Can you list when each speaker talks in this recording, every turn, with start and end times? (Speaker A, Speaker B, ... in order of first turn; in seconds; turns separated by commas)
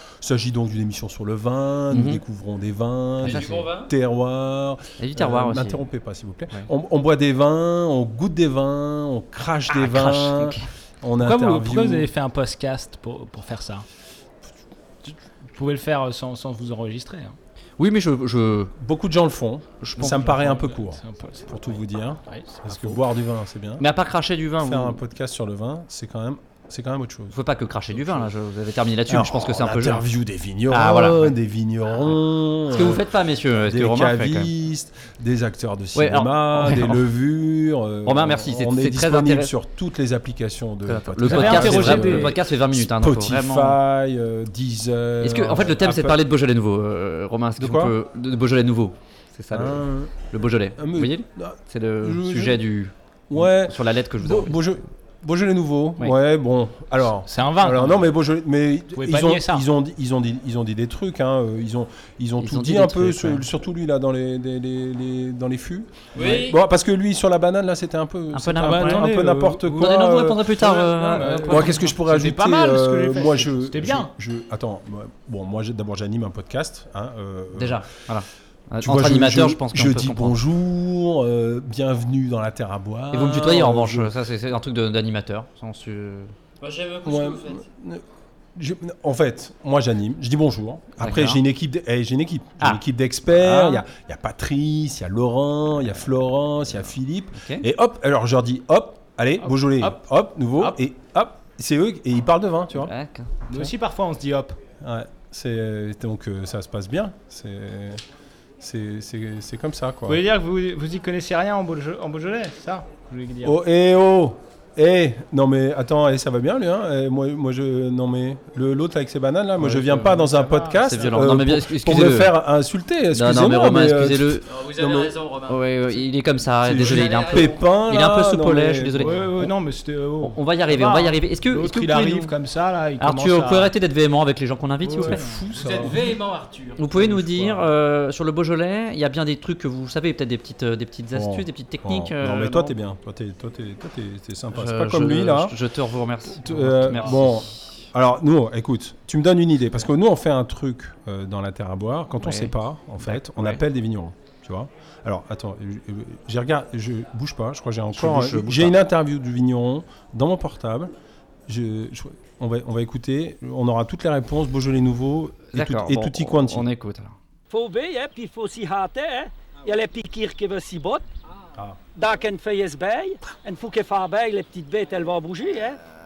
Speaker A: 0.2-12.1, Speaker B: 1.9-2.2, Speaker C: 3.2-3.8, Speaker B: 3.2-3.5, Speaker B: 5.0-5.8, Speaker B: 9.7-10.6, Speaker D: 11.2-13.8, Speaker D: 15.1-17.4, Speaker B: 17.8-18.7, Speaker A: 18.8-23.9, Speaker B: 19.8-20.3, Speaker D: 20.0-23.0, Speaker B: 23.8-25.0, Speaker A: 24.6-27.4, Speaker B: 27.3-30.1, Speaker A: 29.1-46.2, Speaker B: 30.7-31.3, Speaker B: 32.7-34.5, Speaker B: 36.0-37.0, Speaker B: 38.0-39.5, Speaker B: 40.9-43.8, Speaker D: 41.2-42.3, Speaker B: 45.2-54.6, Speaker A: 47.6-48.0, Speaker A: 49.5-50.2, Speaker A: 50.8-52.6, Speaker A: 53.3-70.6, Speaker D: 57.3-58.1, Speaker D: 59.0-59.7, Speaker B: 62.4-63.4, Speaker B: 68.3-69.1, Speaker D: 68.6-70.0, Speaker B: 69.7-71.8, Speaker D: 70.6-74.1, Speaker A: 71.4-77.9, Speaker B: 77.5-80.4, Speaker A: 78.8-84.1, Speaker B: 83.1-86.3, Speaker A: 87.0-88.0, Speaker A: 88.6-102.9, Speaker B: 91.0-91.4, Speaker B: 92.6-93.8, Speaker B: 97.3-97.7, Speaker D: 99.6-100.0, Speaker B: 102.7-103.3, Speaker D: 103.5-104.6, Speaker A: 104.8-108.0, Speaker A: 108.6-110.2, Speaker D: 110.1-113.6, Speaker A: 113.4-125.2, Speaker D: 119.7-120.9, Speaker B: 120.8-122.3, Speaker B: 123.1-124.5, Speaker C: 124.6-125.6, Speaker B: 125.5-129.2, Speaker A: 126.6-129.5, Speaker C: 127.0-127.4, Speaker D: 129.0-133.7, Speaker B: 130.2-132.3, Speaker B: 133.0-135.2, Speaker D: 134.8-136.0, Speaker A: 134.9-136.0, Speaker C: 135.6-136.8, Speaker B: 136.8-142.7, Speaker A: 137.0-137.6, Speaker A: 141.1-145.6, Speaker B: 144.5-147.8, Speaker A: 146.3-160.9, Speaker B: 152.2-153.6, Speaker B: 157.9-158.8, Speaker A: 161.5-166.7, Speaker B: 165.5-167.2, Speaker E: 167.5-171.1, Speaker E: 171.9-175.8